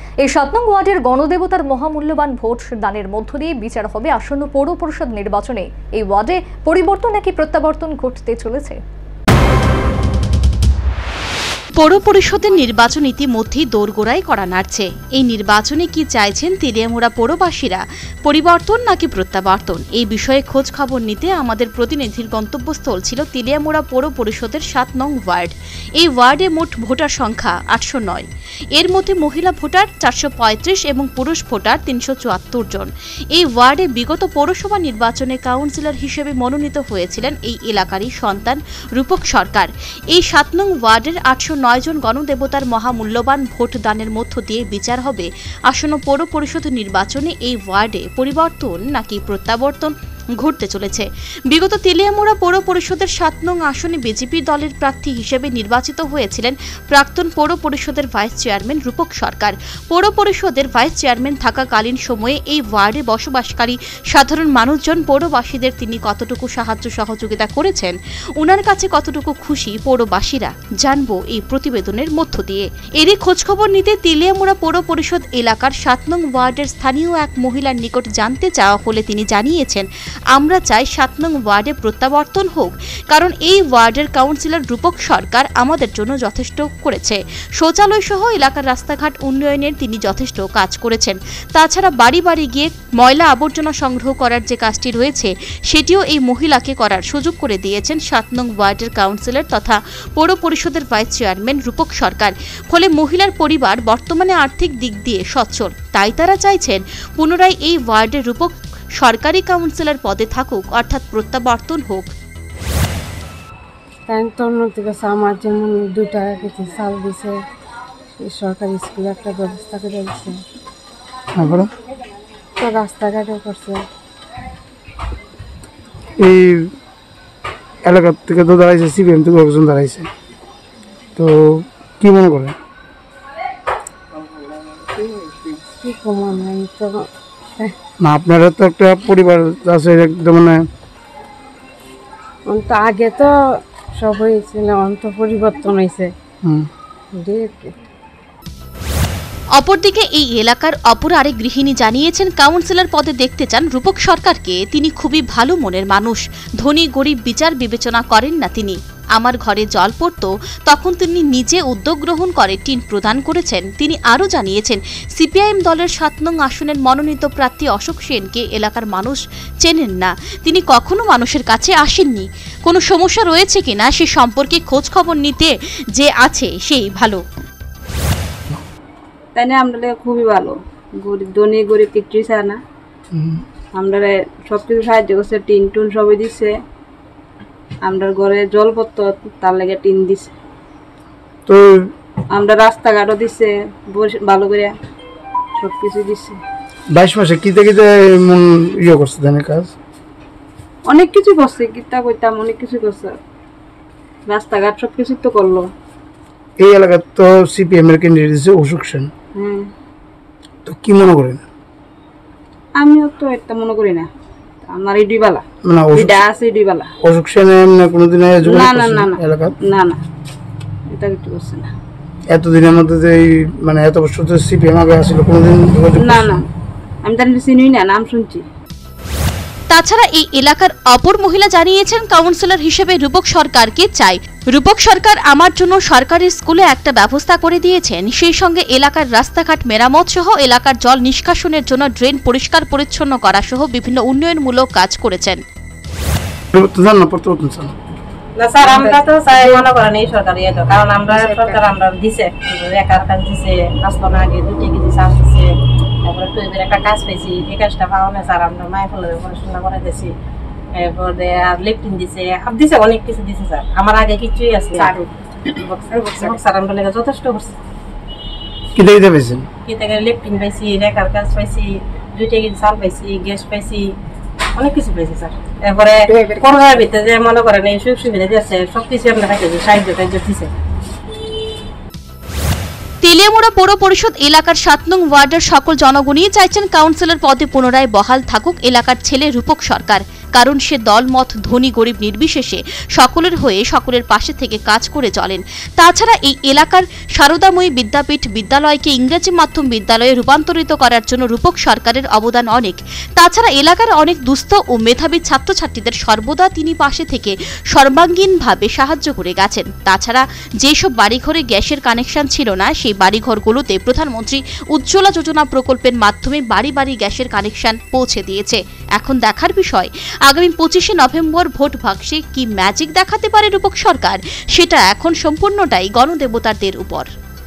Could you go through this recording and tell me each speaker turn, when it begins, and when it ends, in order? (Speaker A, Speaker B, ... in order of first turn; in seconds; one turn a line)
Speaker A: 0.2-8.8
Speaker B: 11.8-112.1
Speaker C: 114.1-117.4
Speaker C: 118.2-120.4
Speaker D: 121.3-121.7
Speaker C: 122.6-123.8
Speaker D: 126.2-126.7
Speaker D: 127.8-130.1
Speaker D: 131.2-132.6
Speaker C: 135.6-137.8
Speaker D: 138.0-140.6
Speaker C: 142.4-143.3
Speaker C: 143.9-146.1
Speaker C: 147.1-147.7
Speaker B: 149.6-177.2
Speaker E: 179.3-182.6
Speaker D: 183.1-183.4
Speaker E: 183.7-186.6
Speaker E: 187.8-190.3
Speaker D: 191.5-191.9
Speaker E: 192.3-194.8
Speaker E: 195.6-196.4
Speaker D: 196.9-199.7
Speaker E: 200.9-203.2
Speaker E: 204.3-205.7
Speaker D: 206.6-209.1
Speaker E: 209.3-209.7
Speaker D: 210.6-211.4
Speaker E: 212.8-214.1
Speaker E: 214.6-215.4
Speaker D: 215.6-216.2
Speaker E: 216.1-216.9
Speaker D: 217.0-219.5
Speaker E: 218.4-219.1
Speaker E: 219.6-220.0
Speaker E: 220.9-221.7
Speaker D: 222.3-226.4
Speaker E: 226.0-226.4
Speaker E: 227.0-228.4
Speaker B: 229.7-245.4
Speaker D: 246.5-247.8
Speaker F: 248.3-255.5
Speaker C: 248.6-249.6
Speaker C: 251.1-251.6
Speaker F: 256.0-260.1
Speaker F: 260.8-267.5
Speaker D: 268.8-269.5
Speaker F: 269.6-273.9
Speaker F: 274.6-280.5
Speaker B: 283.0-327.1